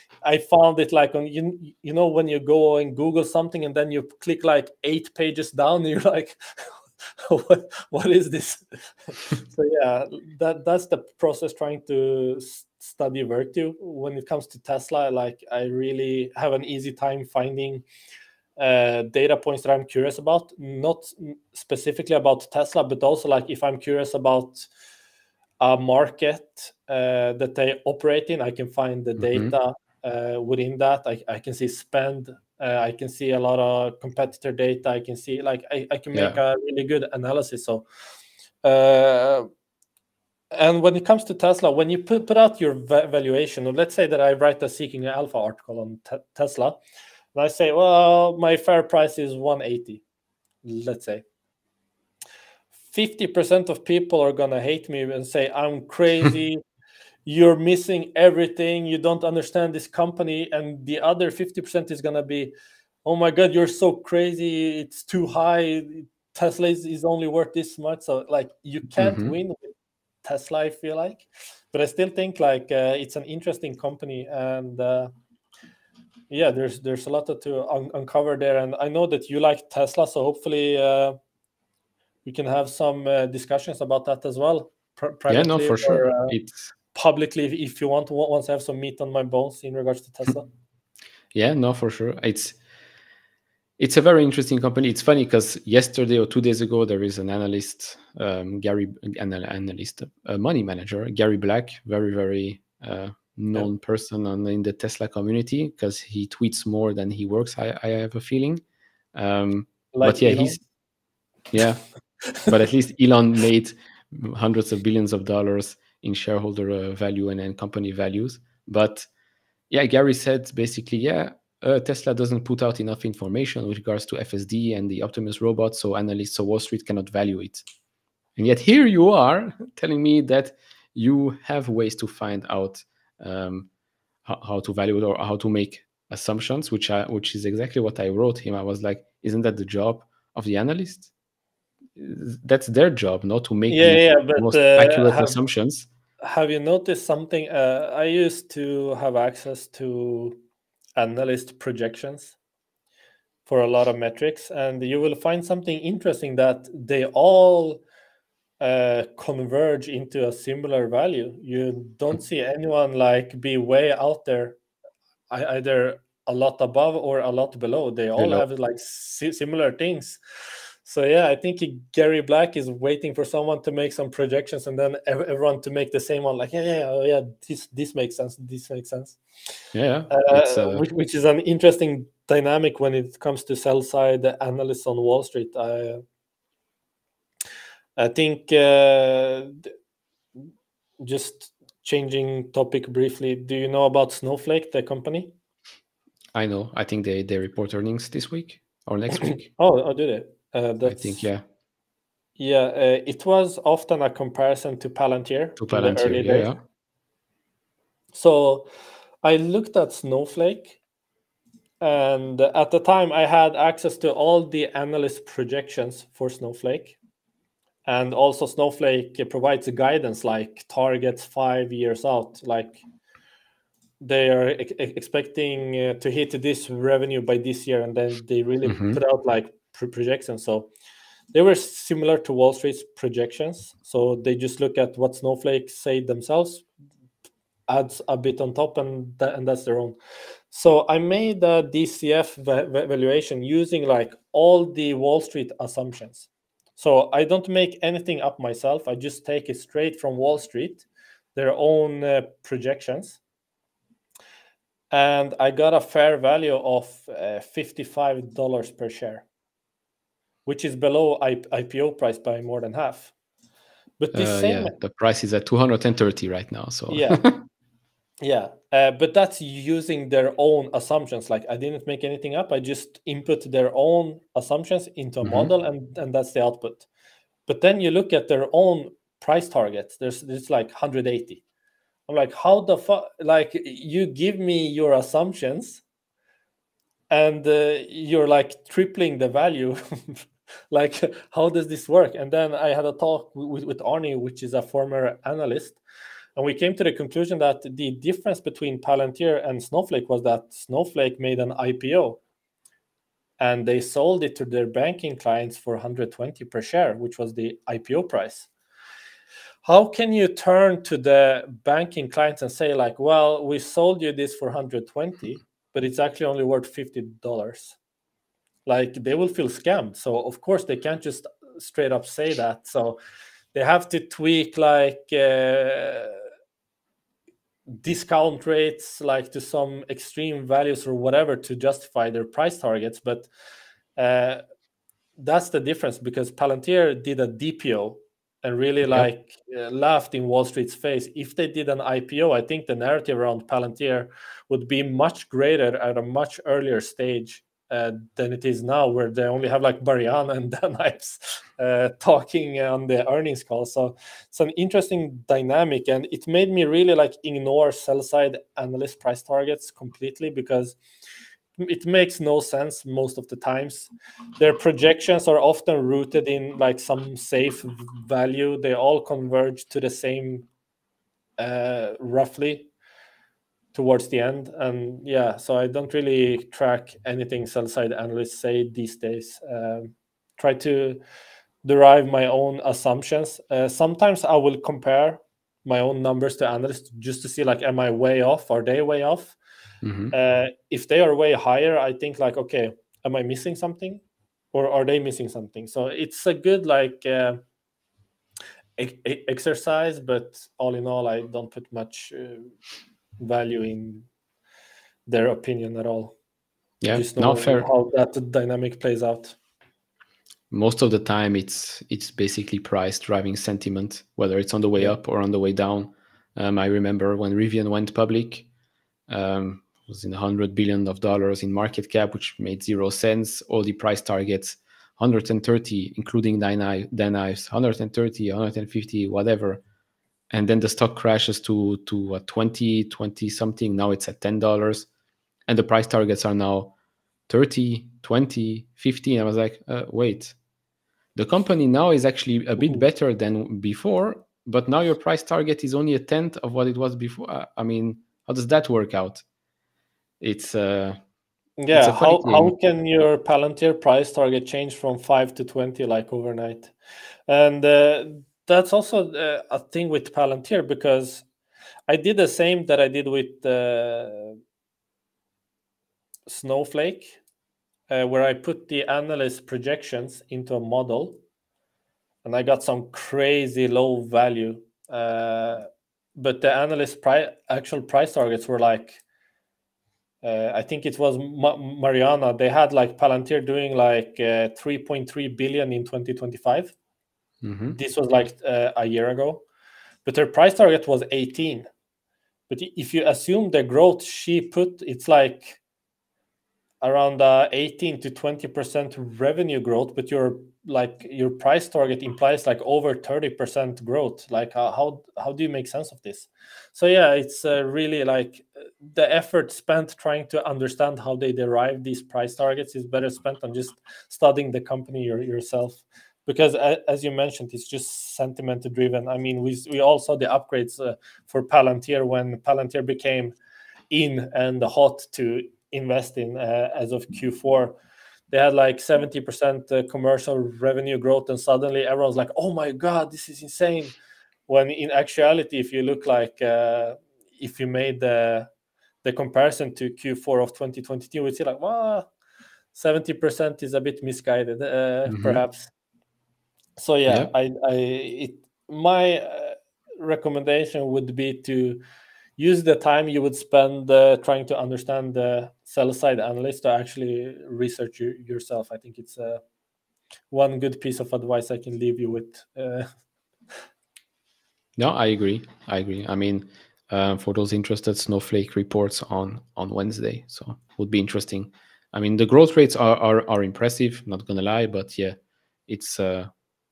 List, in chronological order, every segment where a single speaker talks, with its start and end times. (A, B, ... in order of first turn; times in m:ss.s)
0:00.2-0:17.8 A
0:18.6-0:24.7 A
0:25.6-0:37.8 A
0:29.2-0:29.5 B
0:36.1-0:36.4 B
0:38.6-0:39.5 A
0:40.5-0:46.8 A
0:47.3-0:50.0 A
0:50.6-0:51.2 A
0:52.9-0:56.6 A
0:57.2-1:02.5 A
1:03.0-1:15.1 A
1:09.0-1:09.3 B
1:16.3-1:21.2 A
1:22.2-1:26.3 A
1:25.3-1:26.7 B
1:26.9-1:30.4 A
1:31.3-1:32.6 B
1:33.8-1:48.6 B
1:49.1-1:50.6 B
1:49.9-1:50.6 A
1:51.5-1:51.8 B
1:52.4-1:59.1 B
1:59.7-2:07.6 B
2:08.4-2:13.7 B
2:14.2-2:21.1 B
2:22.0-2:25.9 B
2:23.7-2:25.4 A
2:26.2-2:30.4 A
2:31.0-2:32.4 A
2:33.4-2:37.8 A
2:38.6-2:44.6 A
2:45.3-2:50.2 A
2:48.2-2:48.4 B
2:50.8-2:59.2 A
2:59.7-3:00.8 B
3:00.1-3:06.0 A
3:08.0-3:09.7 A
3:11.0-3:15.3 A
3:16.3-3:19.5 B
3:19.5-3:21.2 A
3:20.8-3:21.4 B
3:22.4-3:26.5 A
3:25.6-3:26.6 B
3:28.1-3:28.7 A
3:29.2-3:30.8 A
3:31.8-3:37.0 A
3:37.8-3:42.8 A
3:44.0-3:50.7 A
3:48.6-3:49.0 B
3:51.3-3:56.7 A
3:57.7-4:00.0 A
4:00.5-4:13.2 A
4:14.9-4:19.2 A
4:20.4-4:23.1 A
4:24.0-4:24.7 A
4:24.1-4:27.4 B
4:26.9-4:27.2 A
4:28.2-4:36.8 A
4:35.2-4:35.5 B
4:37.5-4:41.4 A
4:42.1-4:45.8 A
4:47.1-4:55.8 A
4:56.4-5:02.2 A
5:03.4-5:08.5 A
5:09.6-5:17.8 A
5:18.6-5:23.0 A
5:23.5-5:26.2 A
5:27.7-5:33.3 A
5:34.0-5:34.4 A
5:35.2-6:00.8 A
6:01.6-6:10.5 A
6:11.4-6:12.7 A
6:13.7-6:21.0 A
6:21.6-6:29.4 A
6:29.8-6:30.1 B
6:30.1-6:34.0 A
6:34.5-6:37.4 A
6:38.8-6:42.5 A
6:43.2-6:44.1 A
6:45.1-6:46.1 A
6:46.8-6:47.7 B
6:46.9-6:49.4 A
6:50.5-6:58.5 B
6:59.1-7:09.6 B
7:10.3-7:14.9 B
7:15.5-7:16.7 B
7:17.3-7:20.4 B
7:21.2-7:29.2 B
7:30.2-7:31.0 B
7:31.6-7:36.7 A
7:31.7-7:32.5 B
7:37.3-7:41.2 A
7:41.9-7:44.4 A
7:46.2-7:47.2 A
7:47.9-7:51.2 A
7:52.2-7:59.0 A
8:00.2-8:06.7 A
8:07.4-8:07.8 B
8:07.7-8:09.4 A
8:10.0-8:11.7 A
8:12.5-8:15.6 A
8:16.8-8:43.3 A
8:43.9-8:47.8 A
8:48.3-8:54.0 A
8:54.5-8:58.5 A
8:59.0-9:02.1 A
9:02.7-9:05.7 A
9:05.1-9:05.4 B
9:06.8-9:11.8 A
9:07.1-9:07.3 B
9:12.4-9:19.4 A
9:20.3-9:22.9 A
9:24.8-9:36.3 B